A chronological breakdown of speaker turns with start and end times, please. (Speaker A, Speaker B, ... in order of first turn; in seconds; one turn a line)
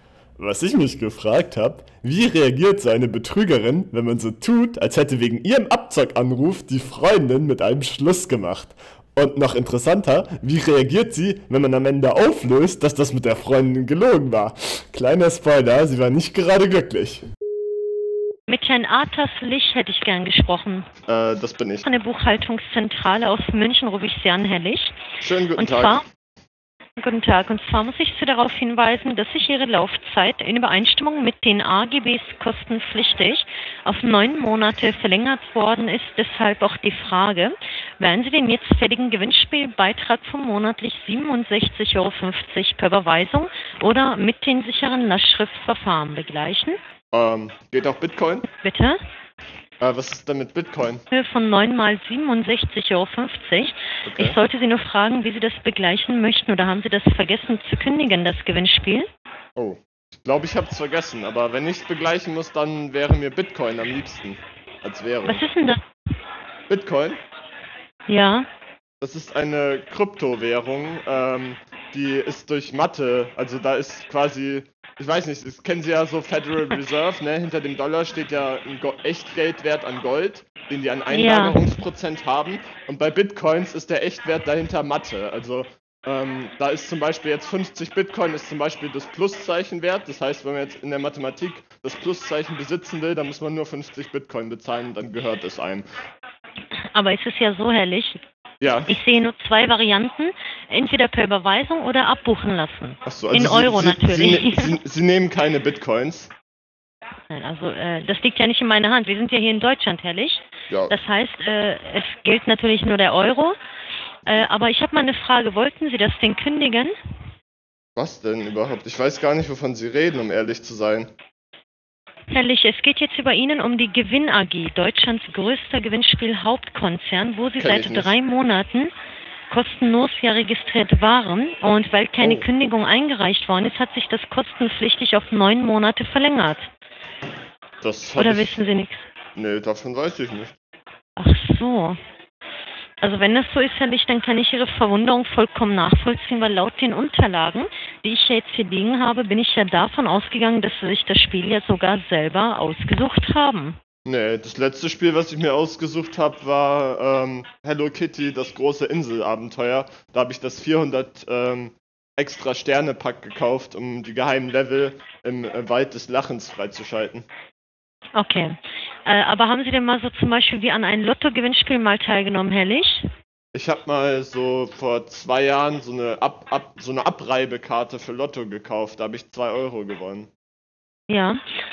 Speaker A: 0.4-17.2
Speaker B: 18.5-20.9
Speaker A: 21.1-21.9
Speaker B: 21.8-25.0
Speaker A: 25.2-26.0
Speaker B: 25.6-26.0
Speaker B: 27.0-46.8
Speaker A: 47.1-48.5
Speaker B: 48.6-49.0
Speaker A: 49.8-51.0
Speaker B: 51.1-59.1
Speaker A: 54.0-54.4
Speaker A: 59.5-65.4
Speaker B: 65.2-65.8
Speaker A: 66.7-67.2
Speaker B: 68.1-68.5
Speaker A: 69.0-95.8
Speaker B: 81.1-81.6
Speaker B: 96.9-98.2
Speaker A: 98.6-99.0
Speaker B: 98.9-104.7
Speaker A: 103.0-106.3
Speaker B: 107.3-113.5
Speaker A: 110.7-111.0
Speaker B: 114.2-116.9
Speaker A: 118.0-121.1
Speaker B: 122.3-128.9
Speaker A: 127.6-128.1
Speaker B: 129.5-136.7
Speaker A: 132.2-132.5
Speaker A: 137.8-138.6
Speaker B: 138.2-139.1
Speaker A: 139.3-140.5
Speaker B: 141.2-142.0
Speaker B: 143.0-153.8
Speaker A: 154.1-167.3
Speaker B: 168.2-173.1
Speaker A: 173.5-180.3
Speaker B: 181.1-181.4